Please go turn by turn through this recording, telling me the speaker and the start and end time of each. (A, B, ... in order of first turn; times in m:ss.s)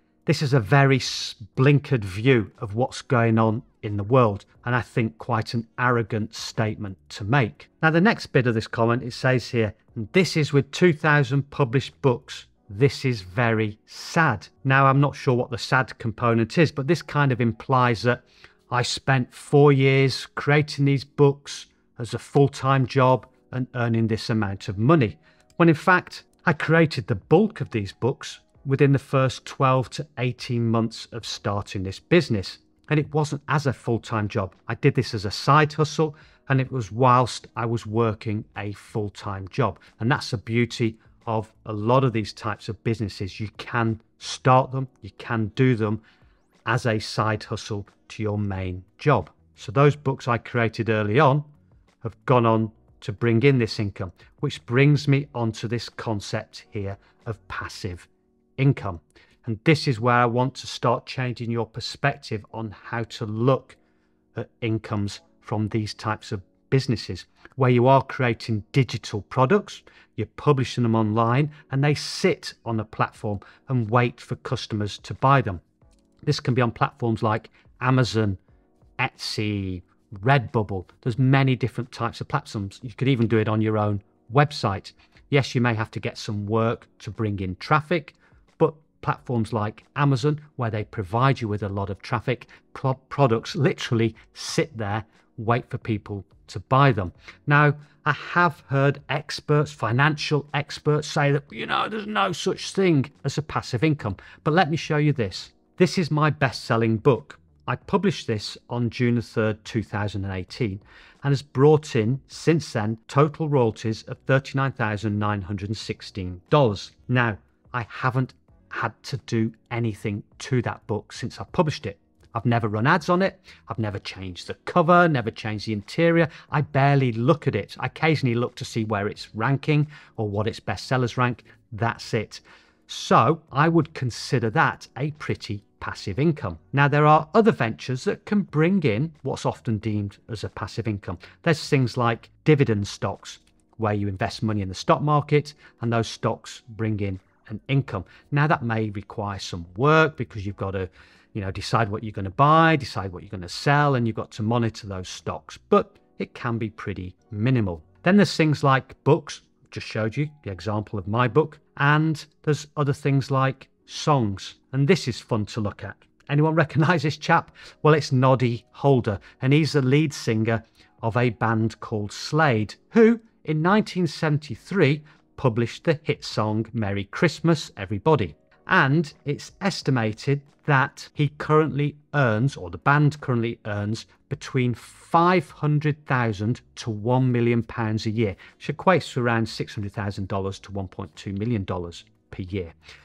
0:00.2-0:46.0 A
0:46.6-0:51.4 A
0:52.0-1:03.8 A
1:04.3-1:15.6 A
1:16.2-1:18.4 A
1:19.0-3:12.7 A